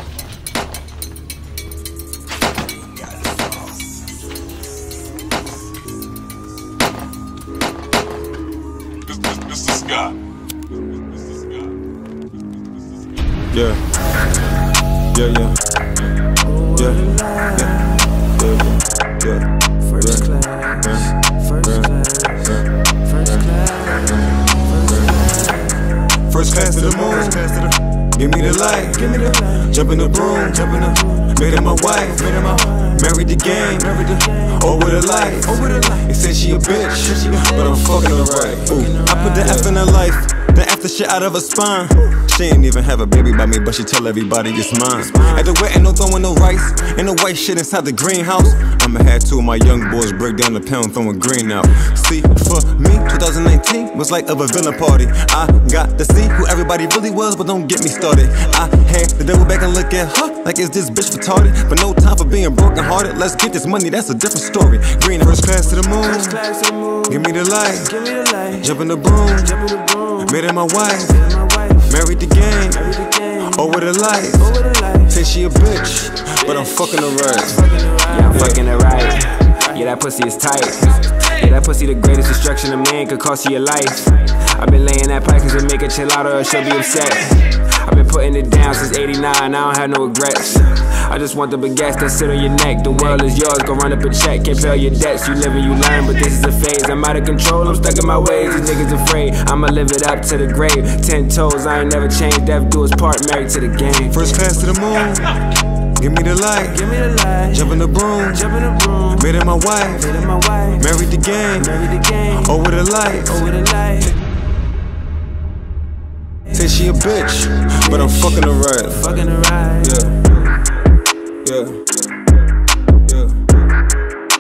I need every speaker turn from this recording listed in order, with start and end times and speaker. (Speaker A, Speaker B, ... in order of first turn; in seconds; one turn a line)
Speaker A: 9.1-10.2
Speaker A: 13.5-13.9
Speaker A: 15.1-15.6
Speaker B: 16.6-18.0
Speaker A: 16.7-22.7
Speaker B: 19.9-22.5
Speaker B: 23.2-24.1
Speaker A: 23.2-23.6
Speaker A: 24.2-25.2
Speaker B: 24.6-25.7
Speaker A: 26.2-66.5
Speaker B: 29.1-29.7
Speaker B: 32.3-32.9
Speaker B: 33.8-35.9
Speaker B: 38.8-39.7
Speaker B: 66.1-67.1
Speaker A: 67.0-69.7
Speaker B: 67.9-68.6
Speaker B: 69.7-70.2
Speaker A: 70.2-78.6
Speaker B: 71.2-71.9
Speaker B: 72.8-73.5
Speaker B: 74.5-75.1
Speaker B: 77.6-77.9
Speaker C: 78.0-104.3
Speaker A: 104.1-113.5
Speaker B: 106.8-107.6
Speaker B: 108.4-109.2
Speaker B: 110.0-110.8
Speaker B: 111.8-112.2
Speaker B: 113.4-114.1
Speaker A: 116.5-120.7
Speaker B: 119.0-120.0
Speaker A: 121.4-122.3
Speaker A: 123.0-123.5